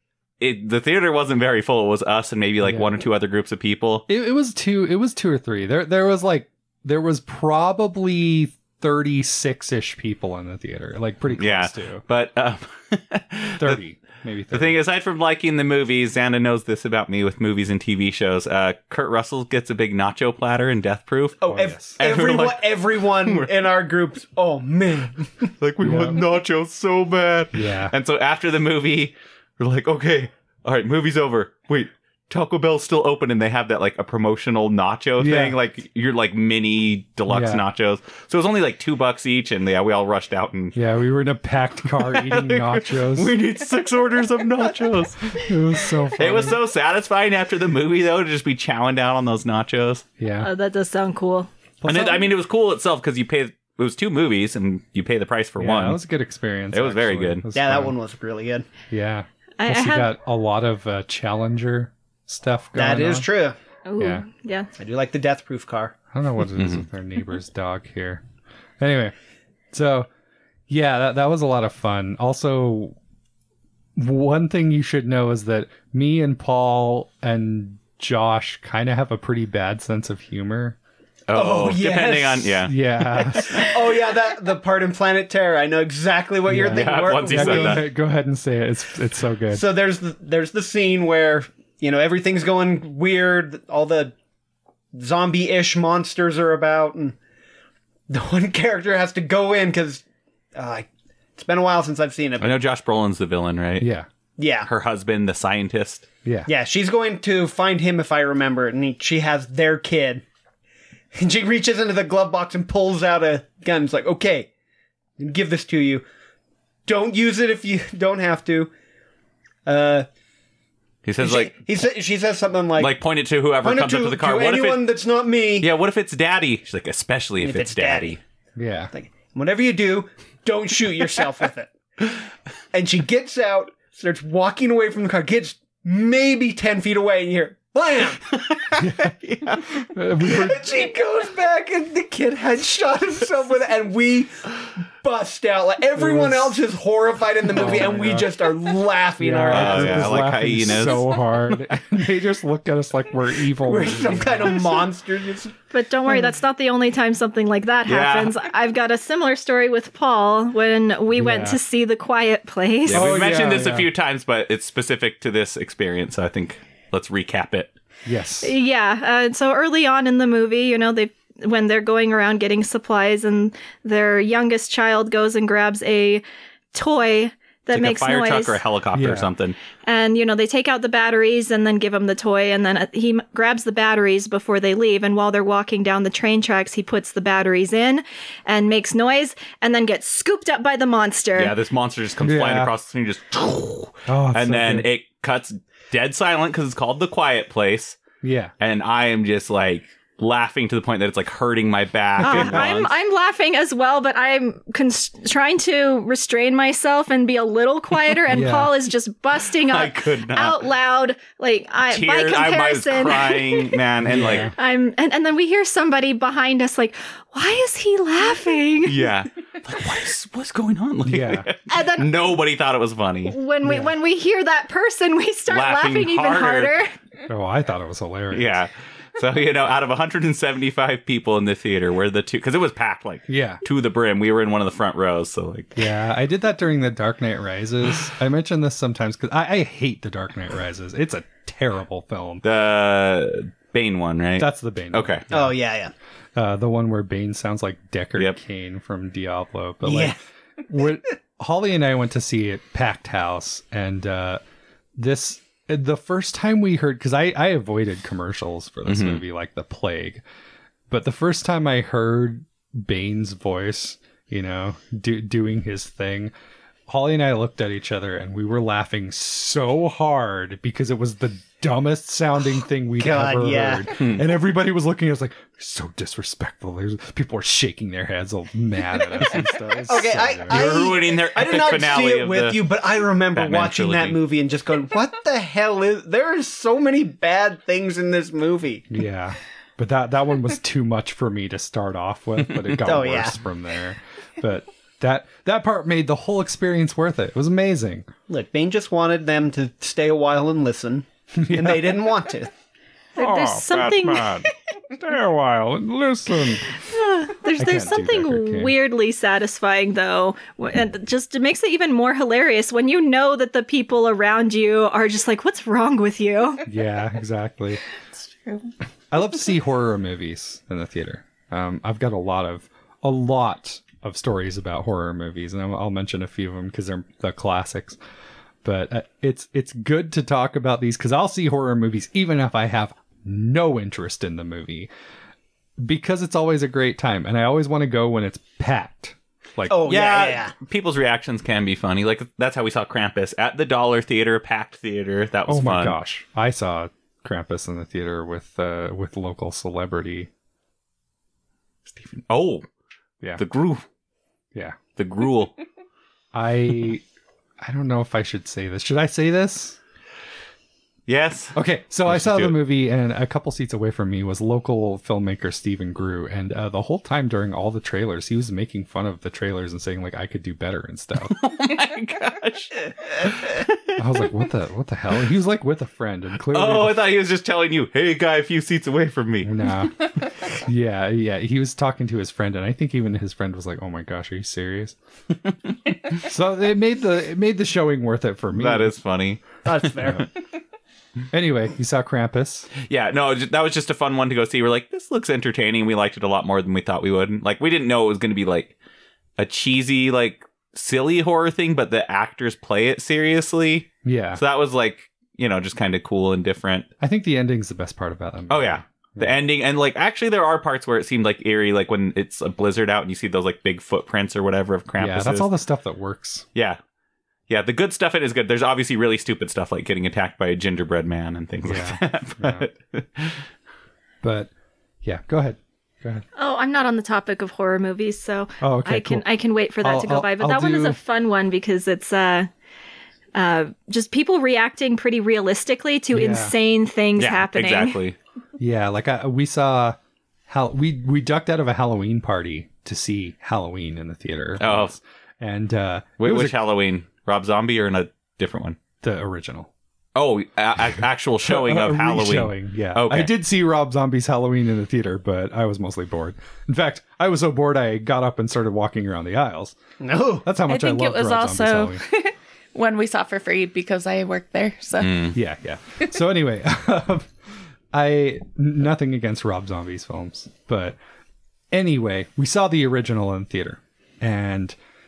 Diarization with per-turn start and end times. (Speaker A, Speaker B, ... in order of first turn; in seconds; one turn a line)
Speaker A: 0.4-4.0
Speaker B: 2.6-2.9
Speaker B: 4.1-12.0
Speaker A: 11.3-13.8
Speaker B: 13.6-14.8
Speaker A: 14.5-21.4
Speaker C: 21.4-25.4
Speaker B: 21.5-22.0
Speaker A: 21.9-23.5
Speaker A: 25.6-40.8
Speaker B: 25.8-26.2
Speaker B: 27.5-27.9
Speaker B: 35.2-35.6
Speaker B: 37.3-37.6
Speaker B: 40.7-43.3
Speaker A: 42.0-45.4
Speaker B: 45.4-46.6
Speaker A: 46.2-50.0
Speaker B: 50.2-50.5
Speaker D: 50.4-51.5
Speaker B: 51.8-52.3
Speaker A: 51.8-56.0
Speaker B: 55.6-57.9
Speaker A: 56.7-57.4
Speaker C: 57.5-58.6
Speaker B: 58.9-63.3
Speaker D: 59.6-60.1
Speaker C: 62.7-63.6
Speaker D: 63.9-64.7
Speaker B: 64.0-64.2
Speaker C: 64.8-65.9
Speaker B: 66.1-68.2
Speaker A: 66.6-66.8
Speaker B: 68.8-69.1
Speaker B: 69.7-70.1
Speaker B: 70.7-73.0
Speaker B: 74.0-80.8
Speaker A: 81.3-83.7
Speaker C: 81.3-82.6
Speaker B: 82.6-83.6
Speaker C: 83.5-87.8
Speaker B: 86.5-89.7
Speaker A: 86.6-87.8
Speaker C: 89.5-94.1
Speaker C: 94.9-97.2
Speaker C: 98.1-100.0
Speaker C: 100.5-102.6
Speaker A: 102.4-103.9
Speaker B: 103.8-104.1
Speaker C: 104.4-104.7
Speaker A: 104.6-106.0
Speaker B: 106.2-106.5
Speaker C: 106.5-110.2
Speaker C: 111.1-114.5
Speaker C: 115.2-116.0
Speaker C: 116.8-118.7
Speaker C: 119.7-120.1
Speaker A: 121.0-121.6
Speaker C: 121.2-123.0
Speaker A: 122.8-124.9
Speaker C: 123.6-125.7
Speaker A: 125.6-128.2
Speaker C: 127.4-128.2
Speaker B: 128.6-128.9
Speaker C: 128.9-131.7
Speaker C: 132.7-138.4
Speaker A: 138.7-139.6
Speaker B: 138.8-140.6
Speaker C: 140.2-144.3
Speaker C: 145.0-150.3
Speaker B: 145.9-146.6
Speaker B: 147.4-148.3
Speaker B: 149.2-154.8
Speaker A: 149.5-151.6
Speaker C: 153.6-155.5
Speaker D: 155.7-163.0
Speaker A: 157.9-158.4
Speaker B: 161.1-161.6
Speaker A: 162.8-167.7
Speaker B: 162.9-163.9
Speaker B: 168.0-168.5
Speaker D: 168.4-178.6
Speaker A: 177.7-179.6
Speaker B: 178.9-179.3
Speaker D: 179.8-191.5
Speaker A: 191.3-198.0
Speaker B: 192.2-192.7
Speaker B: 194.1-194.9
Speaker B: 198.2-198.5
Speaker A: 198.6-202.9
Speaker B: 202.2-202.7
Speaker D: 202.2-219.0
Speaker B: 208.3-208.7
Speaker A: 209.6-210.6
Speaker A: 211.9-214.5
Speaker B: 214.0-214.5
Speaker A: 218.8-223.3
Speaker B: 221.0-221.5
Speaker D: 221.7-222.1
Speaker D: 223.2-226.9
Speaker B: 223.6-223.9
Speaker A: 225.5-226.8
Speaker B: 227.3-228.6
Speaker A: 228.3-235.8
Speaker B: 233.3-233.6
Speaker B: 235.8-242.4
Speaker A: 242.4-245.3
Speaker B: 244.4-245.6
Speaker C: 245.3-245.9
Speaker B: 246.3-254.4
Speaker C: 249.8-250.2
Speaker B: 254.9-260.2
Speaker A: 258.9-259.2
Speaker B: 260.9-266.3
Speaker B: 266.9-280.7
Speaker C: 273.0-273.9
Speaker A: 273.9-274.2
Speaker C: 279.9-288.8
Speaker A: 280.5-282.6
Speaker A: 283.3-284.2
Speaker B: 288.9-298.1
Speaker C: 292.8-293.4
Speaker C: 298.3-302.5
Speaker B: 301.4-302.1
Speaker D: 303.1-304.4
Speaker B: 303.1-306.8
Speaker D: 306.8-316.7
Speaker B: 307.6-308.7
Speaker B: 316.6-317.8
Speaker E: 318.3-318.7
Speaker B: 319.1-328.0
Speaker B: 328.6-334.9
Speaker B: 335.8-339.9
Speaker C: 339.7-340.5
Speaker A: 339.8-345.9
Speaker B: 345.5-350.3
Speaker A: 351.9-352.6
Speaker A: 353.4-353.8
Speaker A: 354.9-355.6
Speaker B: 356.3-357.0
Speaker B: 357.6-359.8
Speaker A: 361.1-362.5
Speaker B: 361.5-371.4
Speaker A: 371.3-374.0
Speaker B: 373.9-377.2
Speaker A: 376.5-379.5
Speaker B: 379.4-385.0
Speaker B: 386.1-388.9
Speaker A: 388.5-389.8
Speaker C: 389.6-390.3
Speaker B: 391.3-392.7
Speaker A: 392.9-398.7
Speaker A: 399.4-406.9
Speaker B: 404.0-404.4
Speaker B: 407.0-409.3
Speaker A: 408.5-415.5
Speaker B: 415.0-416.5
Speaker A: 417.5-423.4
Speaker B: 421.6-422.7
Speaker B: 424.2-424.5
Speaker B: 425.0-426.2
Speaker D: 426.4-432.5
Speaker B: 428.6-429.2
Speaker B: 429.8-431.0
Speaker D: 433.3-438.0
Speaker B: 436.1-436.5
Speaker A: 437.2-438.2
Speaker B: 438.6-440.0
Speaker B: 440.5-446.6
Speaker A: 444.6-444.9
Speaker A: 446.2-448.8
Speaker B: 449.0-449.7
Speaker A: 450.1-453.3
Speaker B: 451.4-459.8
Speaker C: 460.0-460.5
Speaker B: 460.4-462.0
Speaker E: 460.6-465.3
Speaker A: 465.0-465.4
Speaker B: 465.3-467.3
Speaker B: 467.9-471.0
Speaker B: 471.7-474.7